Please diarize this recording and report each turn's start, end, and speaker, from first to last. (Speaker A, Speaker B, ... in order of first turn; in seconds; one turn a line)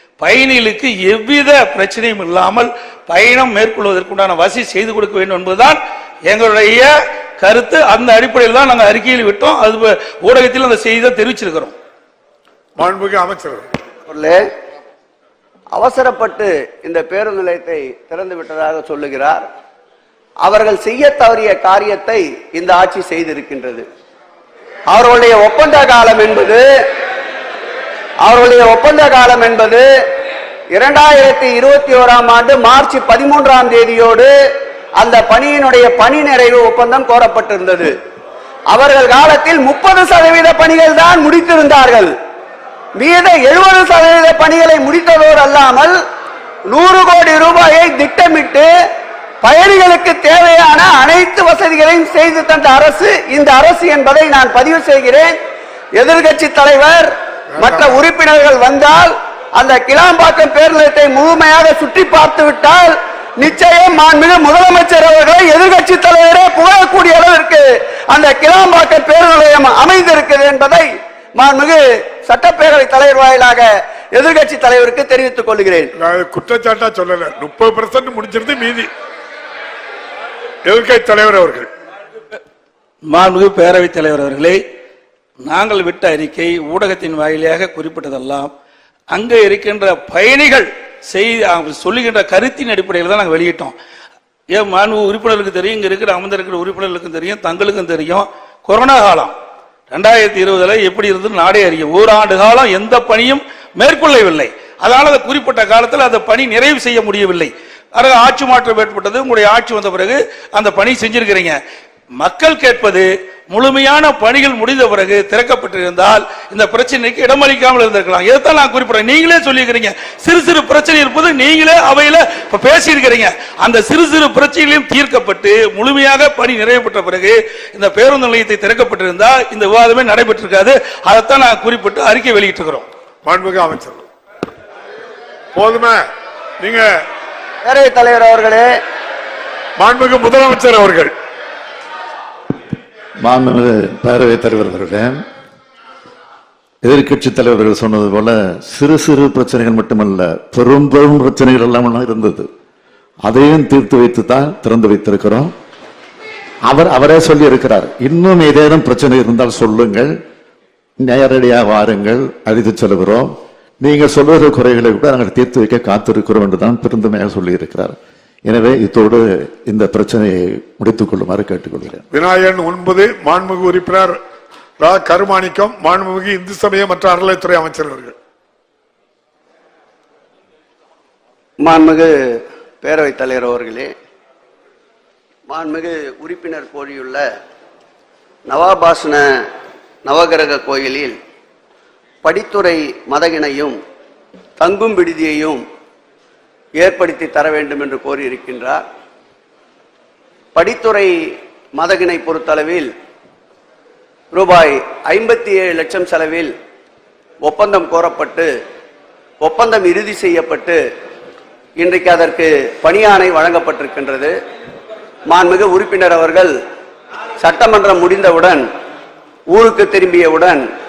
Speaker A: 0.2-11.7
Speaker B: 12.8-13.6
Speaker C: 14.1-14.4
Speaker C: 15.7-19.4
Speaker C: 20.4-23.8
Speaker C: 24.9-26.6
Speaker C: 28.2-29.8
Speaker C: 30.7-34.3
Speaker C: 35.0-37.9
Speaker C: 38.7-42.1
Speaker C: 43.0-46.0
Speaker C: 46.7-48.7
Speaker C: 49.4-55.3
Speaker C: 56.0-75.9
Speaker B: 76.0-78.9
Speaker B: 80.6-81.7
Speaker A: 83.1-84.6
Speaker A: 85.5-88.5
Speaker A: 89.1-93.7
Speaker A: 94.5-99.3
Speaker A: 99.9-111.6
Speaker A: 112.2-132.8
Speaker B: 133.2-134.1
Speaker B: 135.5-136.0
Speaker B: 136.6-136.9
Speaker C: 137.6-138.7
Speaker B: 139.8-141.1
Speaker D: 143.2-145.2
Speaker D: 146.8-152.5
Speaker D: 153.2-155.5
Speaker D: 156.7-160.2
Speaker D: 161.0-167.9
Speaker D: 168.5-172.0
Speaker B: 172.1-174.2
Speaker B: 174.8-178.1
Speaker C: 181.6-182.1
Speaker C: 182.8-183.9
Speaker C: 185.5-187.2
Speaker C: 188.5-189.2
Speaker C: 190.1-191.2
Speaker C: 192.2-193.8
Speaker C: 194.6-195.6
Speaker C: 196.8-198.8
Speaker C: 200.5-201.1
Speaker C: 201.8-202.9
Speaker C: 204.3-206.5
Speaker C: 207.4-208.5
Speaker C: 209.4-210.8
Speaker C: 211.8-214.3
Speaker C: 215.3-216.5
Speaker C: 217.4-218.6
Speaker C: 219.5-220.6